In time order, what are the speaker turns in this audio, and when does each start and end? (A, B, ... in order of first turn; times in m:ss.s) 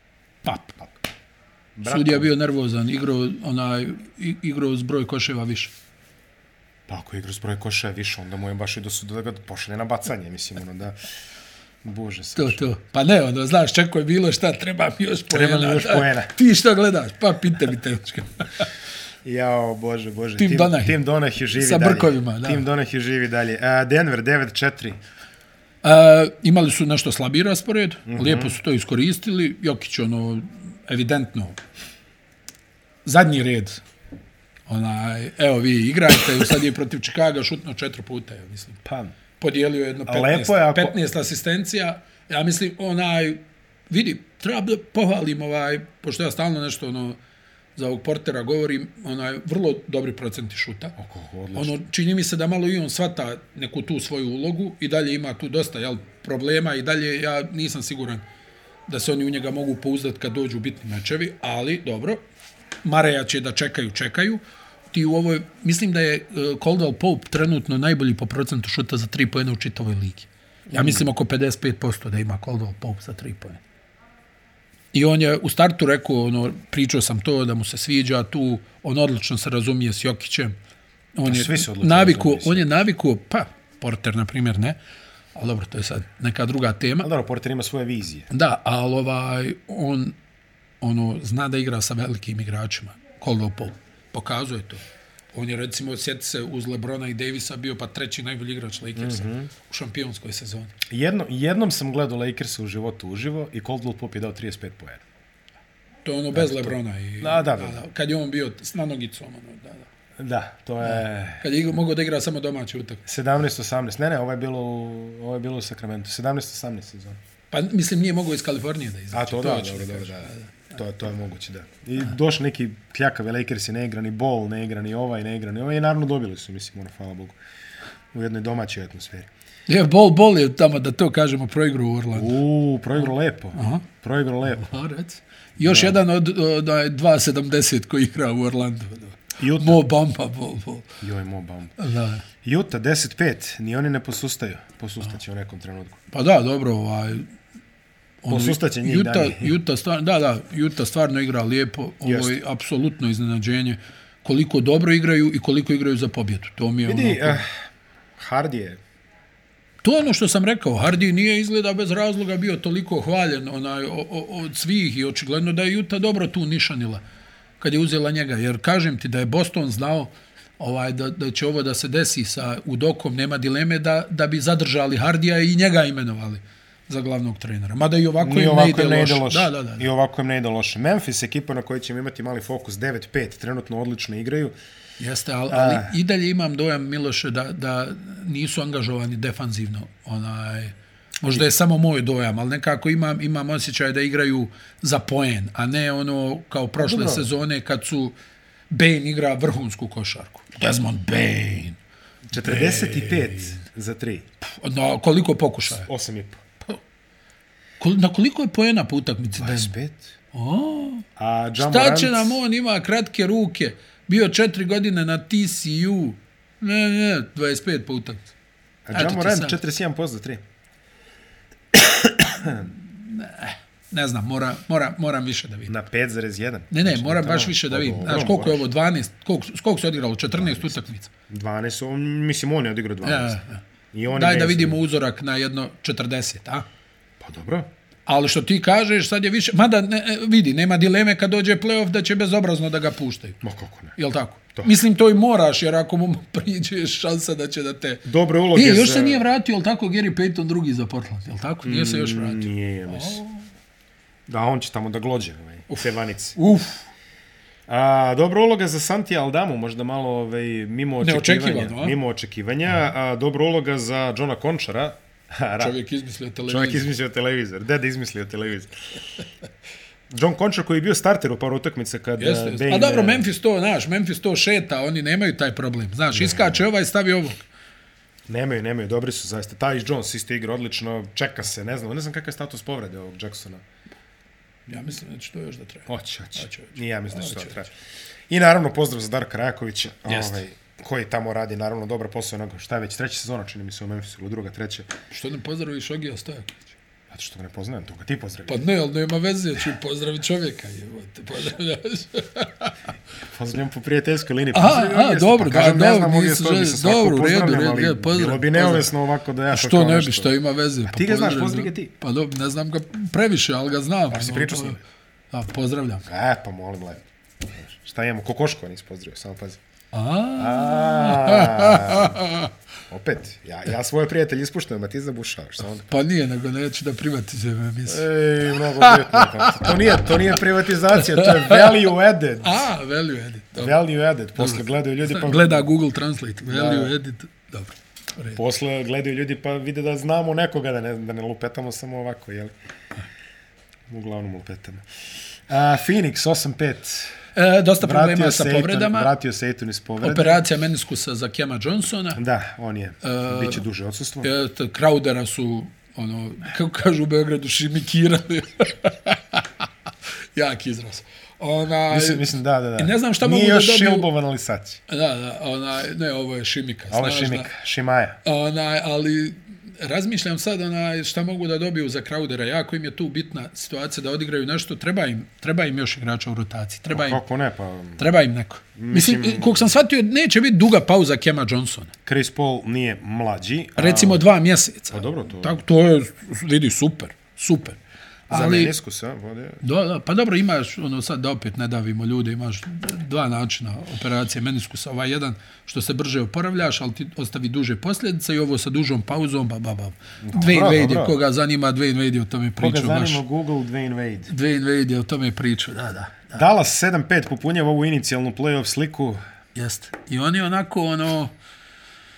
0:00.4-0:00.8 A
0:01.8-0:02.3 B
0:01.8-0:05.7 A
0:06.9-0:11.0 B
0:11.8-0:12.6 B
0:12.4-0:18.7 A
0:15.3-0:16.3 B
0:19.2-0:25.0 B
0:20.4-0:21.0 A
0:21.6-0:22.6 A
0:25.8-0:31.6 A
0:28.1-0:28.6 B
0:33.0-0:33.8 A
0:34.7-0:38.8 A
0:38.8-0:39.1 B
0:39.4-0:47.2 A
0:40.1-0:41.0 B
0:47.8-0:51.0 A
0:51.0-0:51.8 B
0:51.5-0:58.2 A
0:58.9-1:02.2 A
1:02.8-1:04.4 A
1:04.9-1:13.6 A
1:10.7-1:11.0 B
1:14.9-1:20.5 A
1:21.1-1:24.8 A
1:21.2-1:22.8 B
1:25.3-1:27.1 A
1:27.0-1:28.3 B
1:28.3-1:30.1 A
1:30.8-1:34.8 A
1:35.3-1:40.7 A
1:39.0-1:39.5 B
1:40.9-1:45.0 B
1:46.0-1:49.8 A
1:46.3-1:47.8 B
1:50.2-1:51.5 B
1:50.8-1:53.0 A
1:53.0-1:57.2 B
1:57.5-2:00.5 A
1:59.1-2:07.4 B
2:08.1-2:09.3 B
2:09.7-2:12.4 A
2:12.1-2:14.7 B
2:13.5-2:13.9 A
2:14.5-2:21.0 A
2:15.6-2:16.0 B
2:19.4-2:19.8 B
2:21.0-2:21.8 B
2:21.8-2:22.2 A
2:22.4-2:26.0 B
2:26.1-2:27.2 A
2:28.2-2:37.4 A
2:28.3-2:29.5 B
2:32.0-2:32.4 B
2:36.8-2:37.5 B
2:38.2-2:38.8 B
2:39.8-2:47.0 A
2:47.6-2:59.9 A
2:58.2-3:04.5 B
3:05.0-3:18.1 A
3:05.5-3:05.9 B
3:16.8-3:17.3 B
3:18.7-3:21.8 A
3:22.3-3:24.2 B
3:22.4-3:23.6 A
3:24.4-3:25.9 A
3:25.7-3:26.4 B
3:27.8-3:29.7 A
3:29.3-3:30.1 B
3:30.3-3:31.0 A
3:31.2-3:32.4 B
3:31.6-3:38.3 A
3:38.8-3:40.4 B
3:38.9-3:39.6 A
3:41.7-3:42.7 B
3:42.7-3:45.7 A
3:45.7-3:48.6 B
3:46.7-3:51.1 A
3:50.3-3:53.4 B
3:53.0-3:56.6 A
3:53.9-3:54.8 B
3:57.2-3:57.7 B
3:58.0-4:03.4 A
4:03.4-4:04.0 B
4:04.0-4:13.4 A
4:08.0-4:09.2 B
4:11.6-4:13.2 B
4:14.3-4:16.4 B
4:15.7-4:16.9 A
4:17.7-4:25.8 B
4:21.0-4:22.0 A
4:25.6-4:26.9 A
4:26.5-4:28.7 B
4:30.1-4:33.2 B
4:32.2-4:37.4 A
4:36.1-4:36.6 B
4:38.3-4:43.6 B
4:44.7-4:47.6 A
4:45.9-4:47.7 B
4:48.3-4:54.9 B
4:50.1-4:50.4 A
4:55.1-4:56.7 A
4:57.1-4:58.6 B
4:58.4-5:02.7 A
5:03.3-5:10.3 B
5:04.5-5:08.9 A
5:09.5-5:14.8 A
5:10.8-5:11.9 B
5:14.1-5:14.8 B
5:15.3-5:16.0 A
5:16.0-5:19.6 B
5:19.9-5:22.5 A
5:20.4-5:22.2 B
5:22.9-5:25.9 B
5:25.9-5:30.1 A
5:27.9-5:32.6 B
5:30.9-5:31.7 A
5:32.4-5:33.7 A
5:33.6-5:35.6 B
5:34.4-5:38.4 A
5:36.5-5:36.9 B
5:38.3-5:42.5 B
5:43.9-5:44.8 B
5:45.5-5:47.2 B
5:47.3-5:49.1 A
5:47.8-5:50.4 B
5:50.0-5:52.2 A
5:52.2-5:54.3 B
5:53.0-5:53.6 A
5:54.2-5:59.5 A
6:00.3-6:04.1 A
6:01.9-6:04.8 B
6:04.9-6:07.5 A
6:06.9-6:08.2 B
6:08.2-6:17.2 A
6:16.9-6:18.0 B
6:18.0-6:21.9 A
6:18.8-6:19.7 B
6:22.0-6:24.2 B
6:23.8-6:28.7 A
6:24.9-6:25.6 B
6:28.3-6:29.6 B
6:29.6-6:43.2 A
6:40.2-6:41.2 B
6:42.6-6:44.3 B
6:44.3-6:46.4 A
6:46.3-6:49.2 B
6:49.5-6:51.3 A